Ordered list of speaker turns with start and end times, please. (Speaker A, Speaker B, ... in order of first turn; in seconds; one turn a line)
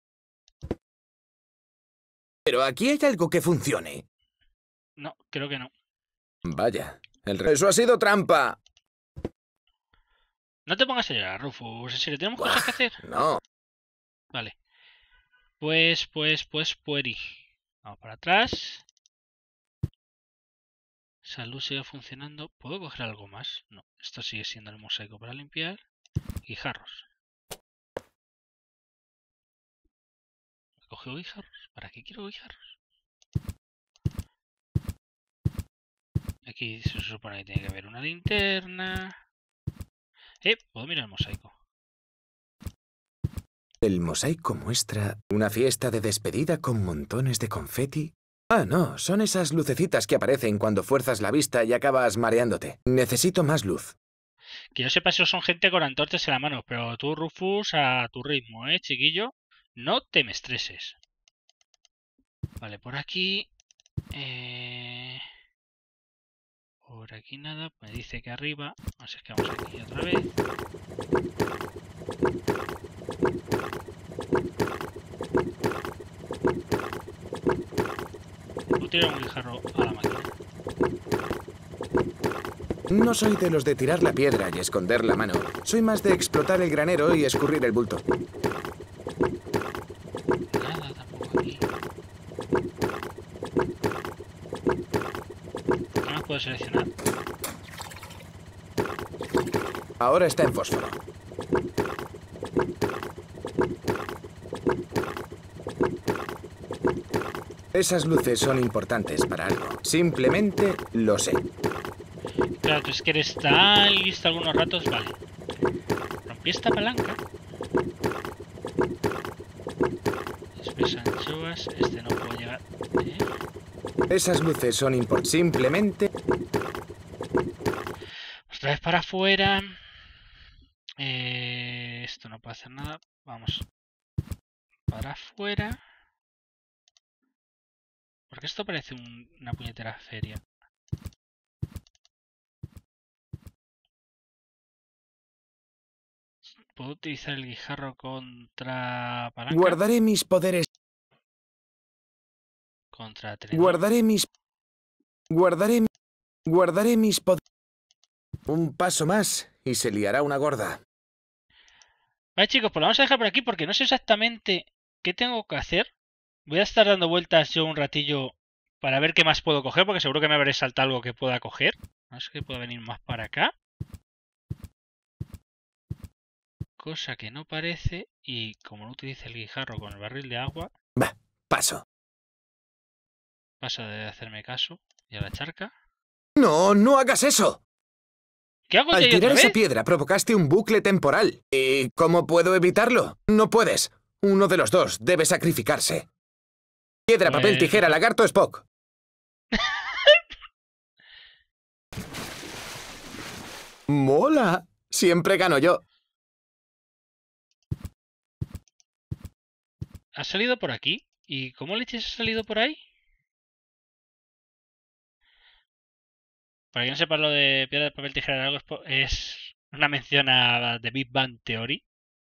Speaker A: 2.5-4.0
Speaker B: 5.0-5.7
Speaker A: 6.4-8.6
Speaker B: 10.7-13.0
Speaker A: 12.4-13.4
Speaker B: 15.6-18.8
Speaker B: 21.2-25.8
Speaker B: 26.4-27.1
Speaker B: 30.9-32.7
Speaker B: 36.5-39.1
Speaker B: 40.4-41.5
Speaker A: 43.8-53.9
Speaker B: 54.7-61.0
Speaker B: 62.6-63.5
Speaker B: 64.1-65.2
Speaker B: 66.8-70.3
Speaker B: 78.8-80.3
Speaker A: 82.9-88.0
Speaker B: 90.5-91.6
Speaker B: 96.0-96.9
Speaker A: 100.0-101.0
Speaker A: 107.7-111.4
Speaker B: 112.6-115.1
Speaker B: 116.2-117.2
Speaker B: 120.5-123.3
Speaker A: 124.1-126.1
Speaker B: 128.5-129.8
Speaker B: 131.0-133.7
Speaker B: 134.9-135.8
Speaker B: 138.3-140.4
Speaker B: 146.6-149.8
Speaker A: 149.5-150.7
Speaker B: 152.9-153.8
Speaker A: 153.5-154.3
Speaker A: 155.3-155.9
Speaker A: 156.5-157.4
Speaker A: 158.5-160.8
Speaker B: 162.3-165.9
Speaker B: 166.5-173.5
Speaker B: 176.8-180.7
Speaker A: 180.9-181.8
Speaker B: 183.6-185.7
Speaker A: 186.4-187.6
Speaker B: 188.7-189.6
Speaker A: 188.9-196.1
Speaker A: 197.1-198.7
Speaker B: 197.2-197.9
Speaker B: 199.6-200.2
Speaker A: 203.9-205.8
Speaker B: 210.2-212.8
Speaker B: 216.7-221.8